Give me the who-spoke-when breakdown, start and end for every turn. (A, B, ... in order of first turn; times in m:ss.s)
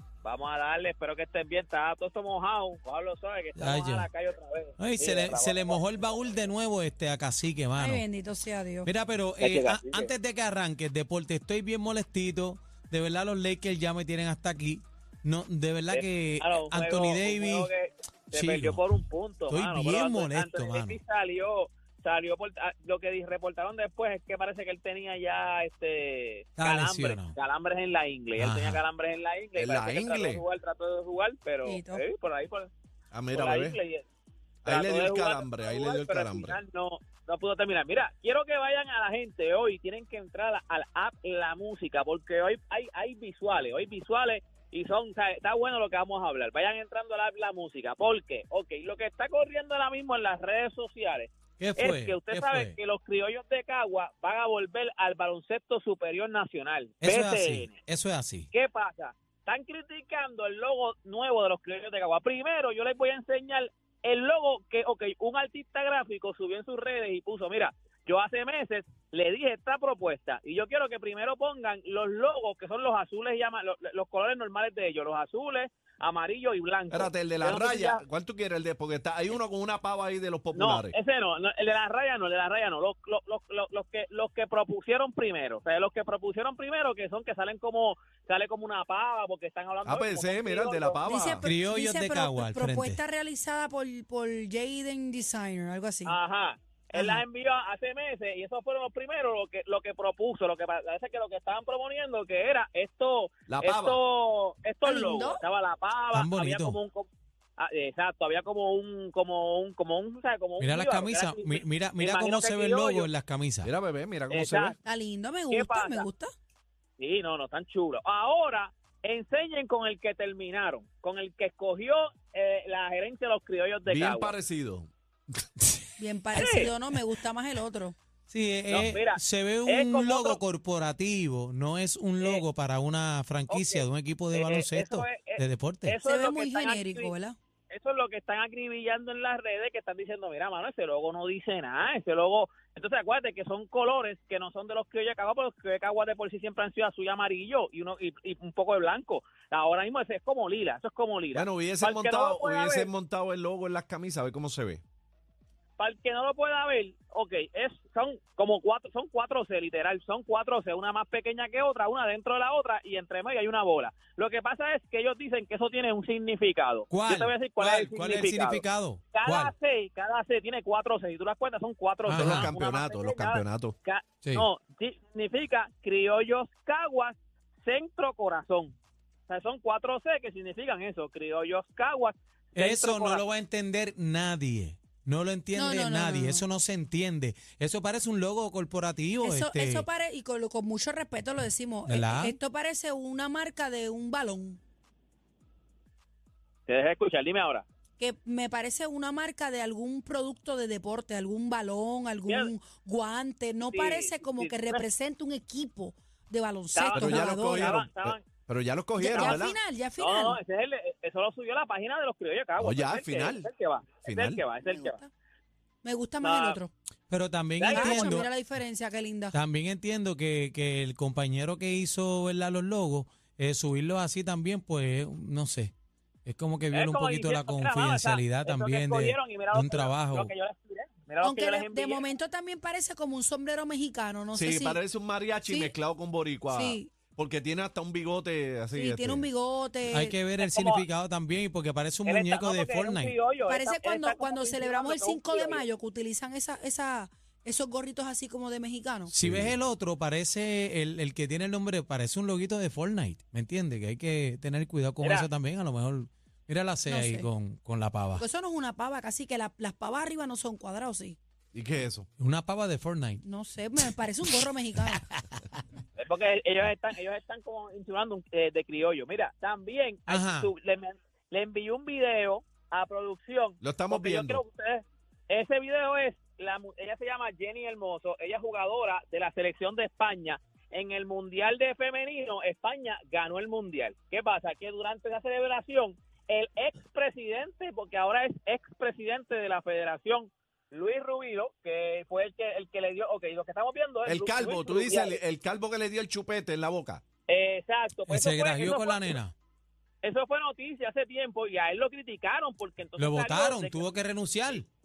0:00.2-0:06.1 A
0:03.6-0:04.1 B
0:04.8-0:08.0 B
0:07.8-0:08.9 C
0:08.8-0:17.7 B
0:09.4-0:10.1 A
0:15.9-0:32.7 A
0:18.3-0:18.9 B
0:19.5-0:21.0 B
0:26.6-0:27.4 B
0:28.4-0:28.8 B
0:29.6-0:30.4 D
0:31.6-0:32.0 C
0:33.1-0:33.8 D
0:33.3-0:34.0 A
0:34.6-0:36.6 D
0:34.7-0:57.8 A
0:51.6-0:52.7 B
0:57.0-0:58.5 B
0:58.5-1:18.0 A
1:16.9-1:20.9 D
1:20.5-1:31.0 A
1:29.8-1:31.4 D
1:31.0-1:36.2 C
1:31.4-1:33.0 B
1:36.0-1:53.1 A
1:36.9-1:37.2 C
1:43.5-1:44.0 D
1:44.8-1:45.4 C
1:46.1-1:46.8 B
1:50.6-1:53.7 B
1:53.6-1:54.7 D
1:54.3-1:54.8 A
1:54.8-1:56.3 C
1:55.5-1:56.0 A
1:57.0-2:04.3 A
2:03.8-2:04.9 D
2:06.0-2:08.0 C
2:08.3-2:16.0 B
2:08.7-2:10.4 A
2:13.5-2:17.1 A
2:16.0-2:17.4 C
2:17.7-2:32.9 A
2:31.3-2:34.8 D
2:35.8-2:58.7 A
2:46.9-2:49.5 B
2:52.0-2:52.5 B
2:52.1-2:53.7 D
2:59.3-3:03.2 A
3:02.6-3:09.8 B
3:05.5-3:06.4 C
3:09.2-3:14.6 C
3:11.9-3:12.4 B
3:16.7-3:17.6 A
3:18.0-3:27.8 C
3:23.6-3:24.8 A
3:26.7-3:28.3 A
3:26.9-3:29.6 D
3:29.0-3:30.4 C
3:29.1-3:29.4 A
3:30.0-3:35.0 A
3:32.6-3:33.5 D
3:34.0-3:34.4 D
3:34.6-3:35.1 C
3:35.8-3:36.7 C
3:36.2-3:36.6 A
3:37.1-3:38.3 B
3:37.6-3:38.3 A
3:37.7-3:39.4 C
3:39.3-3:45.7 B
3:46.2-3:50.3 B
3:46.7-3:52.0 A
3:51.2-3:54.8 C
3:54.3-3:59.3 D
3:55.4-3:55.7 C
3:56.5-3:56.9 C
3:58.7-4:00.2 C
3:59.9-4:03.2 B
4:00.4-4:00.8 A
4:02.0-4:05.6 A
4:03.5-4:09.1 C
4:09.1-4:18.2 B
4:09.2-4:09.6 D
4:15.0-4:15.3 A
4:16.9-4:17.3 C
4:18.2-4:21.2 C
4:21.5-4:22.1 D
4:22.2-4:23.2 B
4:23.2-4:25.0 C
4:26.0-4:55.2 A
4:30.1-4:30.5 B
4:33.6-4:34.4 D
4:54.0-4:57.0 D
4:57.3-4:59.2 A
4:58.0-4:59.3 B
5:00.0-5:03.9 A
5:03.0-5:04.6 B